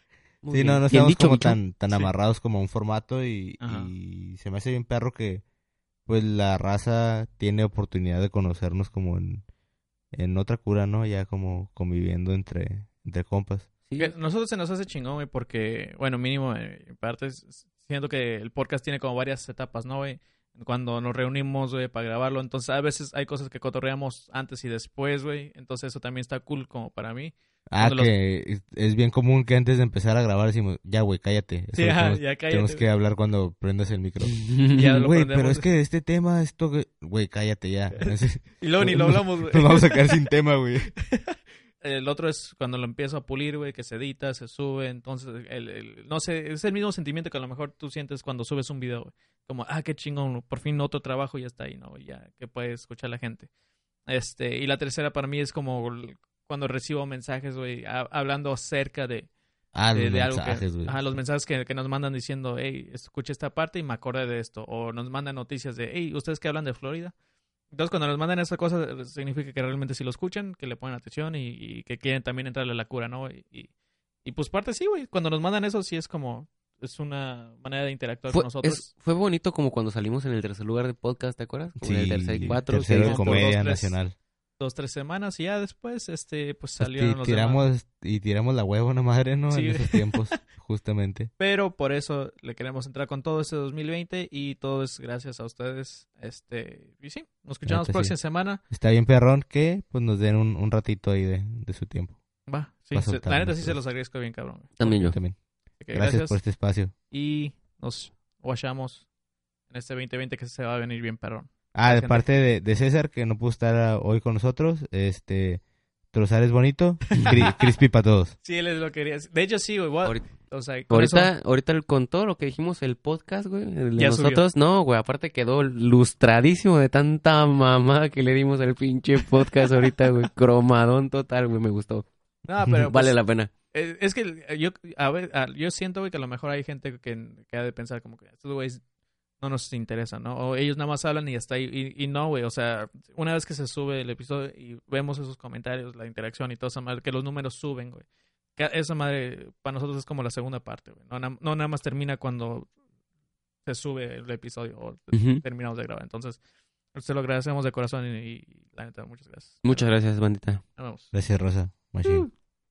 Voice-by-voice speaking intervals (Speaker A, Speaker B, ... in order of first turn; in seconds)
Speaker A: 0.4-1.6, 13.9-14.1, 34.4-34.9, 78.3-83.5, 104.8-105.2, 120.9-132.1, 132.9-133.5, 155.1-155.4, 159.6-160.6
Speaker B: 0.5-5.4, 6.1-9.4, 10.1-13.7, 27.7-40.9, 59.7-61.1, 81.8-84.1, 86.8-91.3, 97.7-102.2, 102.9-103.8, 104.9-105.4, 105.9-106.9, 111.7-118.3, 161.1-162.3
Speaker C: 3.6-3.9, 14.0-28.1, 31.7-32.9, 34.7-35.7, 37.9-40.2, 41.1-53.5, 54.1-59.3, 59.9-67.1, 67.7-73.7, 74.2-78.9, 82.5-84.0, 84.6-87.7, 89.5-90.4, 91.4-98.6, 102.5-105.2, 105.8-106.4, 107.1-109.0, 109.7-112.3, 117.1-117.5, 118.4-121.3, 124.0-124.5, 129.2-130.3, 132.4-133.2, 133.7-138.8, 139.4-148.1, 148.6-152.7, 153.7-156.4, 156.9-159.9, 160.8-161.1, 162.0-162.3